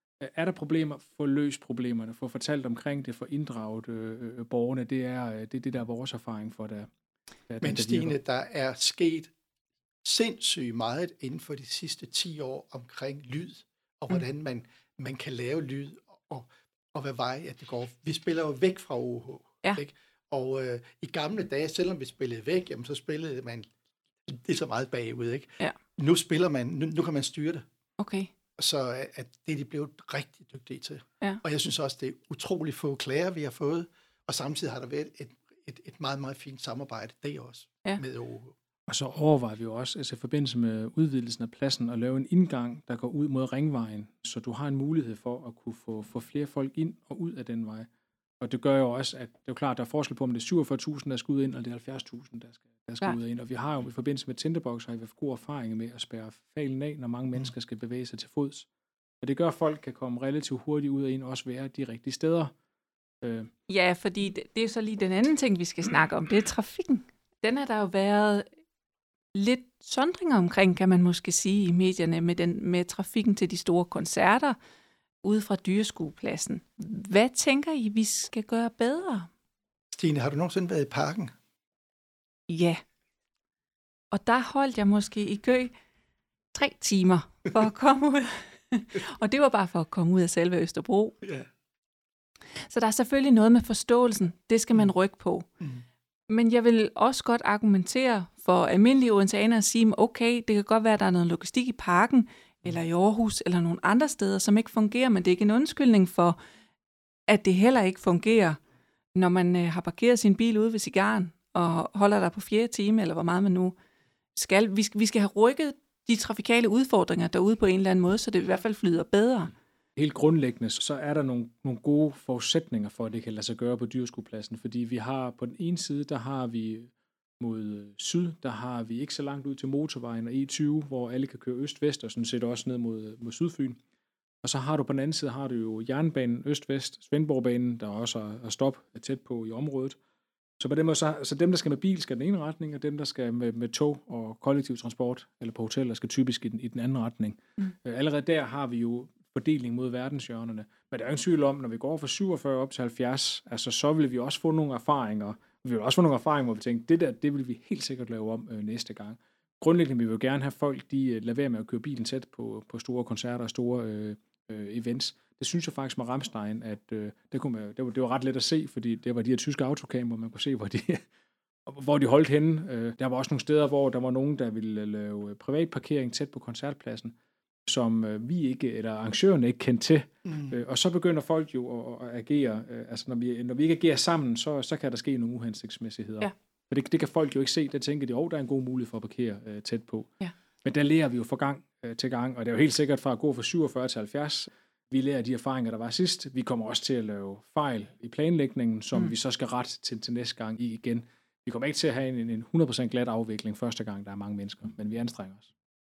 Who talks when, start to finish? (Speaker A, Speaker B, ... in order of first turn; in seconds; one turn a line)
Speaker A: 0.2-6.9
Speaker A: 7.5-8.2
Speaker B: 7.6-9.3
Speaker B: 10.0-23.7
Speaker B: 24.2-27.6
Speaker C: 28.0-28.3
Speaker B: 28.6-38.5
Speaker A: 38.9-47.9
Speaker A: 48.4-58.7
Speaker A: 59.2-62.5
Speaker A: 63.2-63.5
Speaker C: 63.7-68.5
Speaker C: 69.3-74.6
Speaker C: 75.2-79.3
Speaker B: 79.9-81.3
Speaker C: 82.5-82.8
Speaker C: 84.1-85.7
Speaker C: 86.5-91.2
Speaker C: 92.6-95.5
Speaker C: 96.3-106.4
Speaker C: 107.3-108.6
Speaker C: 109.1-113.7
Speaker C: 114.3-119.5
Speaker A: 120.0-133.8
Speaker A: 134.4-140.0
Speaker A: 140.6-171.0
Speaker A: 171.7-177.1
Speaker A: 177.7-205.5
Speaker B: 180.2-180.6